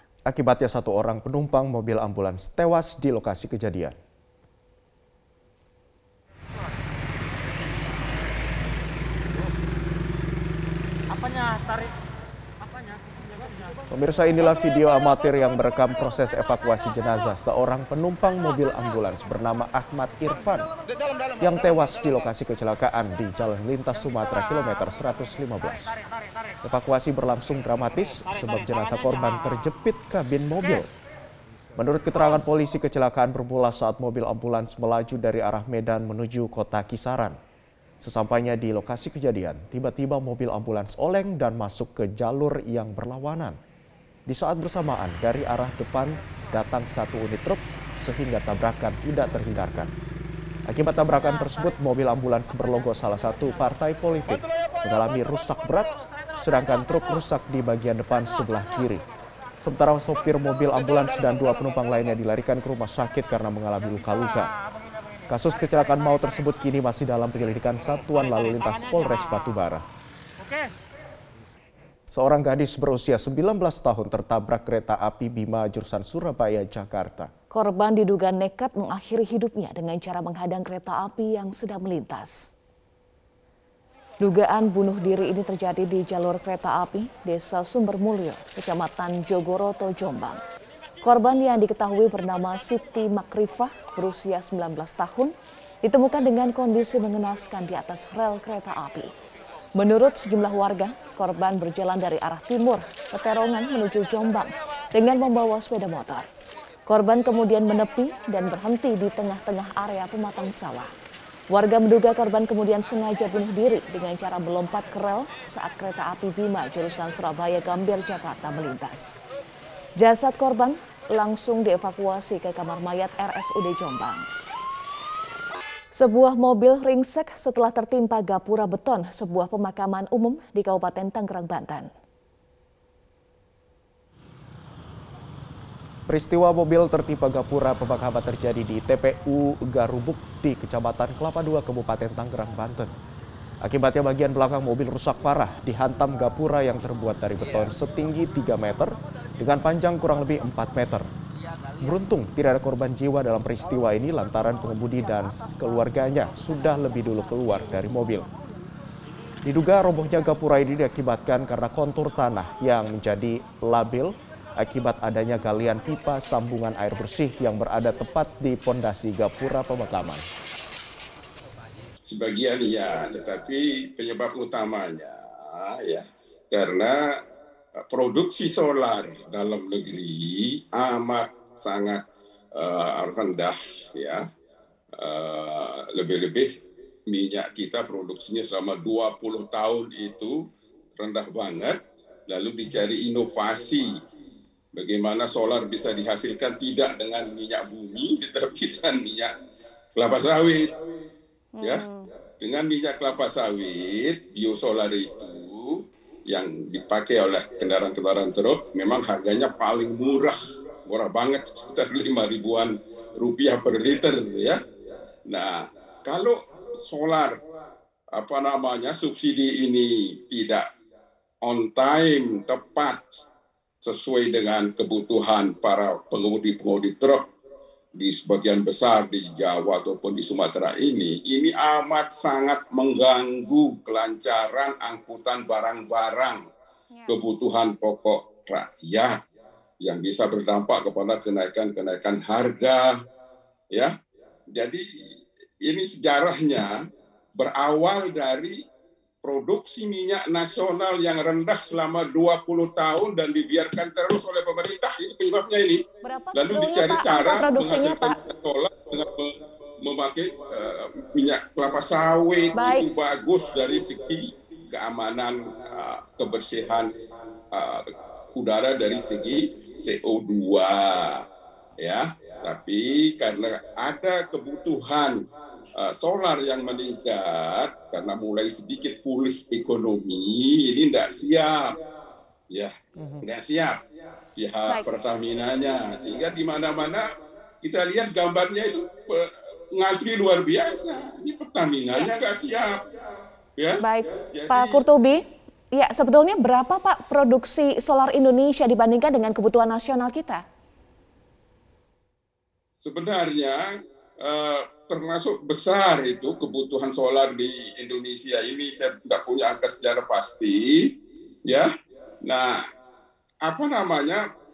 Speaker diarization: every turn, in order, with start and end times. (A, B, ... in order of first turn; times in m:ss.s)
0:00.3-0:03.9 A
0:13.9-0:20.7 A
0:21.4-0:25.9 A
0:26.6-0:30.9 A
0:31.8-0:37.4 A
0:38.0-0:43.6 A
0:44.3-0:49.9 A
0:50.7-0:59.0 A
0:59.6-1:04.5 A
1:05.3-1:09.8 A
1:12.1-1:17.3 A
1:17.5-1:22.5 B
1:24.2-1:30.4 B
1:31.0-1:39.1 B
1:39.8-1:46.3 B
1:46.9-1:50.9 B
1:51.5-1:59.2 B
2:00.0-2:04.3 B
2:05.9-2:11.9 B
2:16.1-2:22.9 A
2:23.6-2:31.1 A
2:31.8-2:38.3 A
2:39.5-2:50.2 A
2:52.1-2:57.1 C
2:57.9-3:02.0 C
3:02.6-3:04.2 C
3:05.0-3:06.5 C
3:07.1-3:10.4 C
3:11.0-3:11.8 C
3:12.3-3:13.9 C
3:14.8-3:19.3 C
3:20.0-3:20.7 C
3:21.6-3:22.1 B
3:22.4-3:34.6 C
3:35.3-3:37.4 C
3:38.1-3:40.6 C
3:41.4-3:43.3 C
3:43.8-3:47.3 C
3:48.0-3:56.4 C
3:56.9-3:57.2 B
3:57.1-3:59.2 C
3:59.8-4:02.9 C
4:04.5-4:04.8 C
4:05.6-4:06.8 C
4:07.4-4:08.6 C
4:09.2-4:15.8 C
4:16.0-4:18.2 B
4:16.3-4:31.2 C
4:22.5-4:22.8 B
4:31.8-4:41.8 C
4:43.0-4:43.2 A
4:43.2-4:43.8 C
4:44.4-4:47.1 C
4:47.6-4:52.8 C
4:53.6-4:54.8 C
4:53.8-4:55.2 B
4:55.7-5:00.4 B
5:02.8-5:03.6 C
5:04.2-5:10.9 C
5:12.2-5:12.6 C
5:13.4-5:14.2 C